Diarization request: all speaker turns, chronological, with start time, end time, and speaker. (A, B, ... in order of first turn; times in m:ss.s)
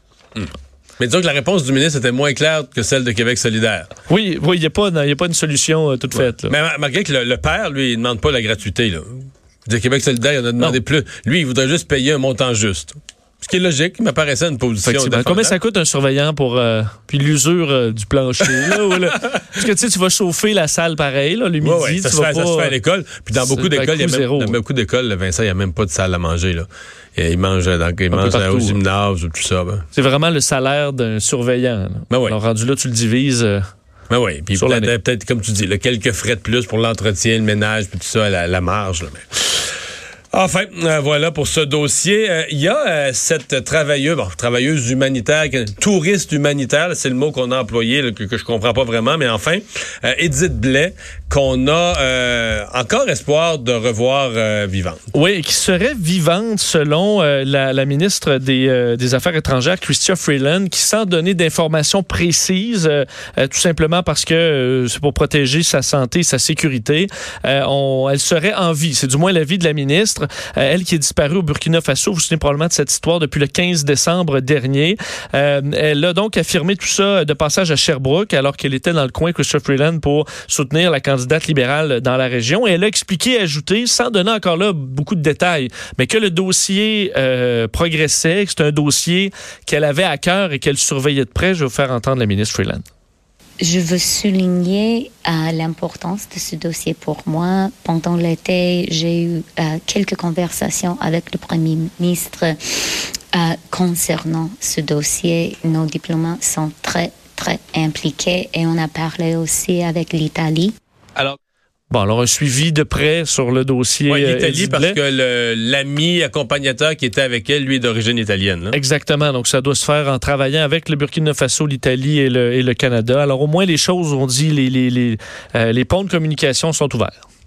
0:00.3-0:03.9 A
0:04.1-0:06.5 B
0:06.2-0:15.5 A
0:14.8-0:22.8 B
0:21.6-0:29.8 A
0:23.3-0:24.6 B
0:28.1-0:28.8 B
0:29.9-0:33.6 B
0:32.1-0:32.4 A
0:34.1-0:39.2 A
0:34.5-0:34.9 B
0:40.3-0:55.0 A
0:55.1-1:32.8 B
1:33.6-1:42.6 C
1:43.3-1:50.7 C
1:51.9-1:55.0 B
1:54.1-1:58.8 A
1:58.7-2:07.2 B